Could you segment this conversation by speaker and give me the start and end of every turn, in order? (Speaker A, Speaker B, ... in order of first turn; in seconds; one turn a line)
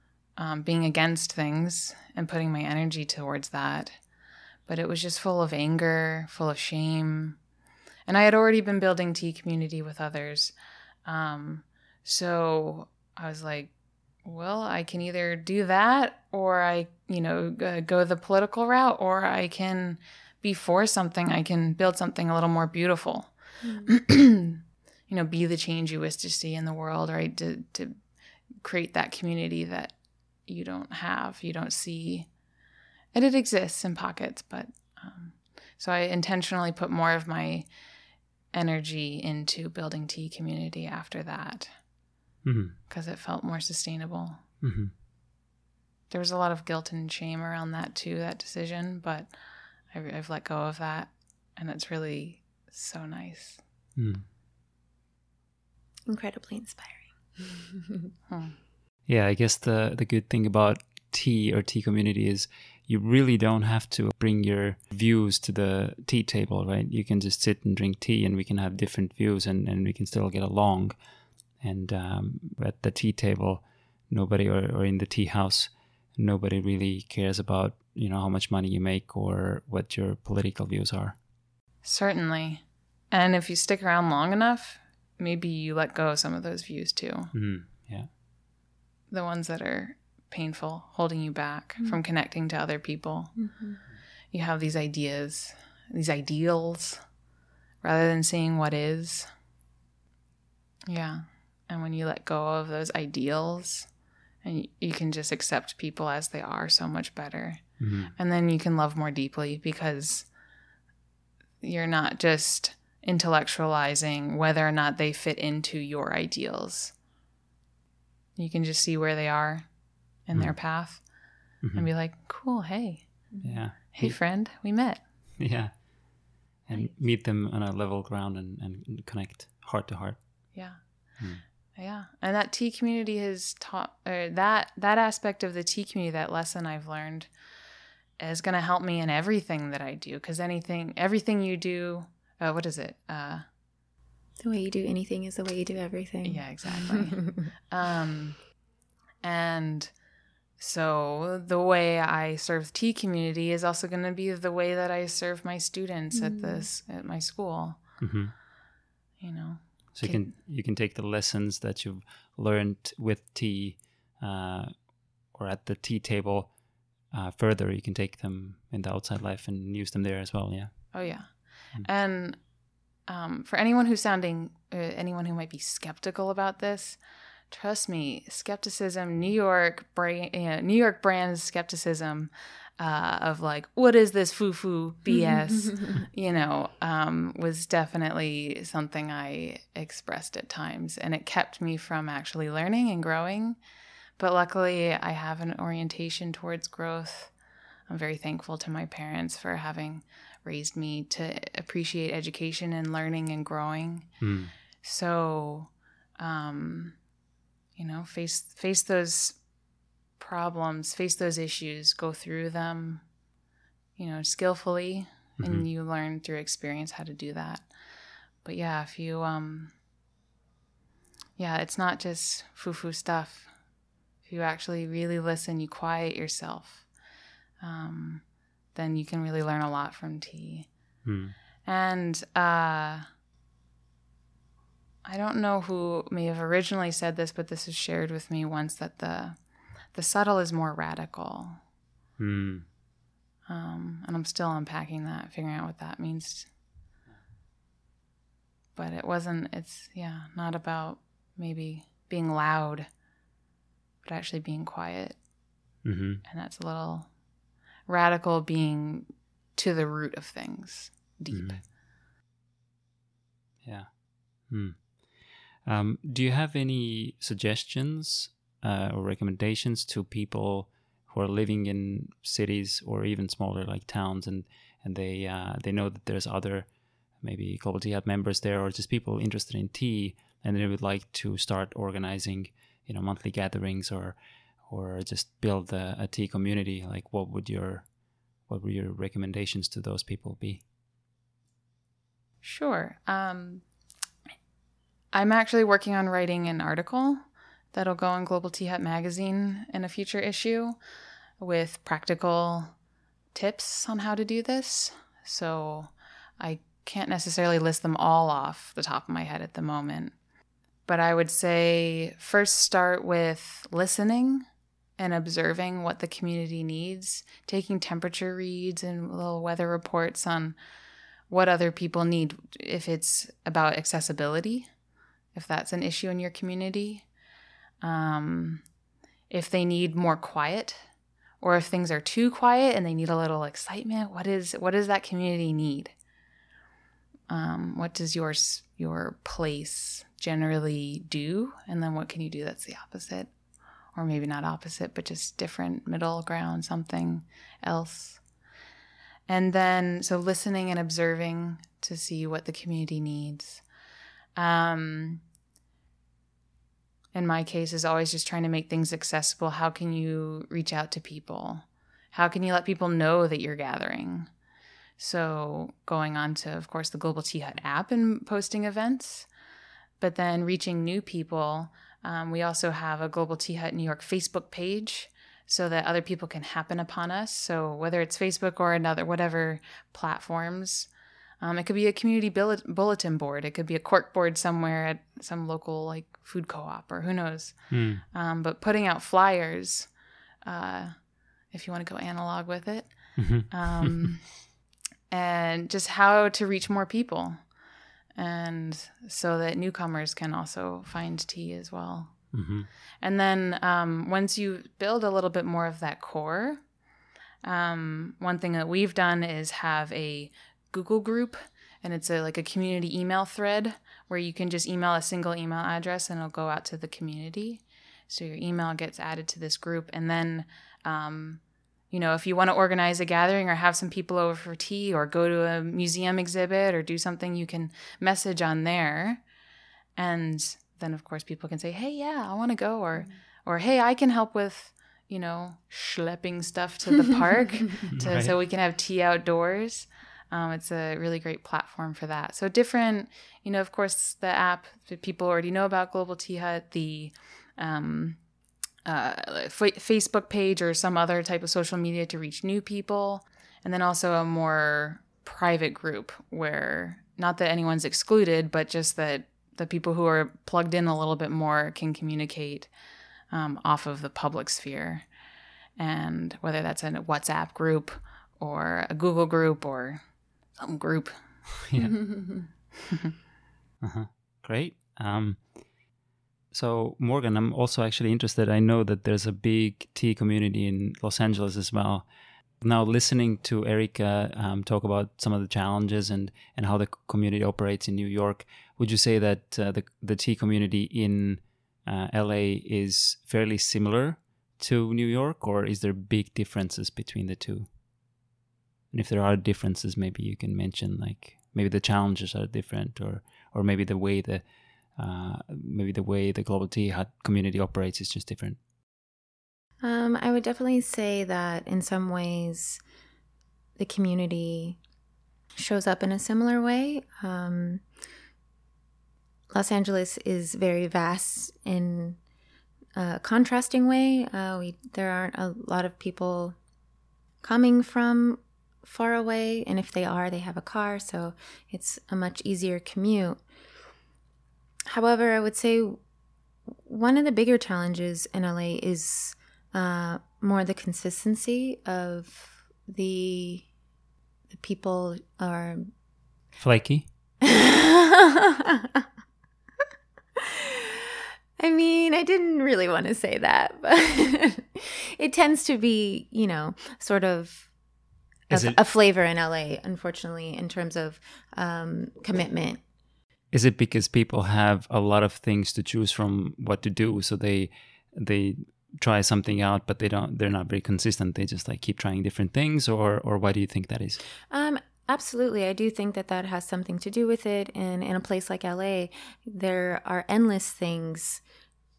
Speaker A: 0.4-4.0
Speaker A: 4.7-7.4
Speaker A: 8.1-10.5
Speaker A: 11.1-13.7
Speaker A: 14.2-23.3
Speaker B: 23.6-23.9
Speaker A: 23.8-27.9
Speaker A: 28.6-29.9
Speaker A: 30.5-32.3
Speaker A: 33.1-37.7
Speaker A: 38.5-41.7
Speaker C: 42.4-42.7
Speaker A: 42.9-44.4
Speaker C: 44.6-44.9
Speaker A: 46.1-49.3
Speaker A: 49.9-53.6
Speaker C: 54.0-54.2
Speaker B: 56.1-58.1
Speaker A: 58.3-58.6
Speaker C: 59.1-70.9
Speaker C: 71.6-81.2
Speaker A: 81.8-87.3
Speaker C: 87.3-88.1
Speaker A: 89.1-93.3
Speaker B: 93.3-93.8
Speaker A: 94.3-97.0
Speaker A: 97.8-99.3
Speaker A: 100.9-103.9
Speaker A: 104.4-107.6
Speaker C: 107.8-108.1
Speaker A: 108.2-110.3
Speaker A: 111.6-116.9
Speaker A: 118.4-119.7
Speaker A: 120.3-121.0
Speaker C: 120.3-120.6
Speaker C: 121.6-121.9
Speaker A: 121.7-123.1
Speaker B: 123.3-123.6
Speaker C: 123.4-124.2
Speaker A: 123.8-125.0
Speaker C: 125.4-125.7
Speaker C: 126.7-130.2
Speaker A: 131.8-137.3
Speaker A: 138.2-143.4
Speaker B: 144.4-147.5
Speaker A: 146.2-148.4
Speaker A: 149.2-149.9
Speaker A: 150.6-157.8
Speaker B: 156.1-156.7
Speaker C: 158.0-158.3
Speaker A: 159.2-160.3
Speaker C: 159.9-164.7
Speaker C: 165.3-166.5
Speaker C: 167.1-170.8
Speaker A: 170.9-172.4
Speaker A: 173.1-177.0
Speaker A: 177.5-193.6
Speaker B: 185.1-185.9
Speaker A: 194.2-197.3
Speaker A: 197.9-204.1
Speaker C: 204.2-204.5
Speaker A: 204.8-206.9
Speaker A: 207.8-209.4
Speaker A: 210.2-213.0
Speaker A: 214.0-217.7
Speaker C: 215.4-215.7
Speaker A: 218.4-219.7
Speaker A: 221.4-223.5
Speaker A: 224.2-226.8
Speaker A: 227.6-228.2
Speaker A: 228.7-230.7
Speaker C: 231.0-231.3
Speaker A: 231.6-233.1
Speaker A: 235.0-239.4
Speaker A: 239.9-241.6
Speaker C: 242.2-242.7
Speaker A: 243.5-246.5
Speaker A: 248.8-252.9
Speaker A: 254.0-255.2
Speaker C: 255.8-256.2
Speaker A: 256.2-257.1
Speaker A: 257.9-261.6
Speaker C: 261.3-261.6
Speaker C: 264.5-264.8
Speaker C: 265.6-276.7
Speaker C: 277.2-284.1
Speaker C: 284.7-287.8
Speaker C: 288.5-290.6
Speaker A: 292.4-293.6
Speaker A: 295.1-297.2
Speaker A: 297.7-300.8
Speaker A: 301.4-302.7
Speaker A: 303.3-310.1
Speaker A: 310.9-314.4
Speaker A: 315.0-320.6
Speaker A: 321.3-324.7
Speaker A: 325.3-327.0
Speaker A: 327.8-328.6
Speaker A: 329.3-330.8
Speaker A: 331.4-335.9
Speaker A: 337.3-343.3
Speaker A: 343.9-348.2
Speaker A: 349.3-353.6
Speaker A: 354.4-355.2
Speaker A: 357.1-364.3
Speaker A: 365.0-369.3
Speaker A: 370.0-380.9
Speaker A: 381.4-387.5
Speaker C: 387.7-388.0
Speaker A: 388.1-389.9
Speaker A: 390.4-390.9
Speaker A: 391.5-394.2
Speaker C: 393.2-394.1
Speaker A: 395.1-397.4
Speaker A: 398.1-402.2
Speaker C: 402.3-402.7
Speaker A: 403.0-406.6
Speaker A: 407.4-429.2
Speaker A: 429.9-448.2
Speaker C: 437.9-438.3
Speaker A: 448.9-462.7
Speaker A: 463.3-465.1
Speaker A: 465.8-470.0
Speaker A: 470.6-471.2
Speaker C: 471.7-472.2
Speaker C: 473.8-475.4
Speaker C: 476.5-482.1
Speaker C: 482.6-497.7
Speaker C: 498.9-504.4
Speaker C: 505.0-508.6
Speaker B: 509.8-512.8
Speaker B: 513.8-514.8
Speaker B: 515.5-517.8
Speaker B: 519.5-522.2
Speaker B: 523.0-526.5
Speaker B: 527.4-533.4
Speaker B: 534.9-536.0
Speaker B: 536.8-543.7
Speaker B: 544.5-545.9
Speaker C: 546.6-547.1
Speaker B: 547.4-549.1
Speaker B: 550.4-557.7
Speaker C: 558.5-558.8
Speaker B: 558.5-562.8
Speaker C: 563.5-574.2
Speaker B: 574.5-581.4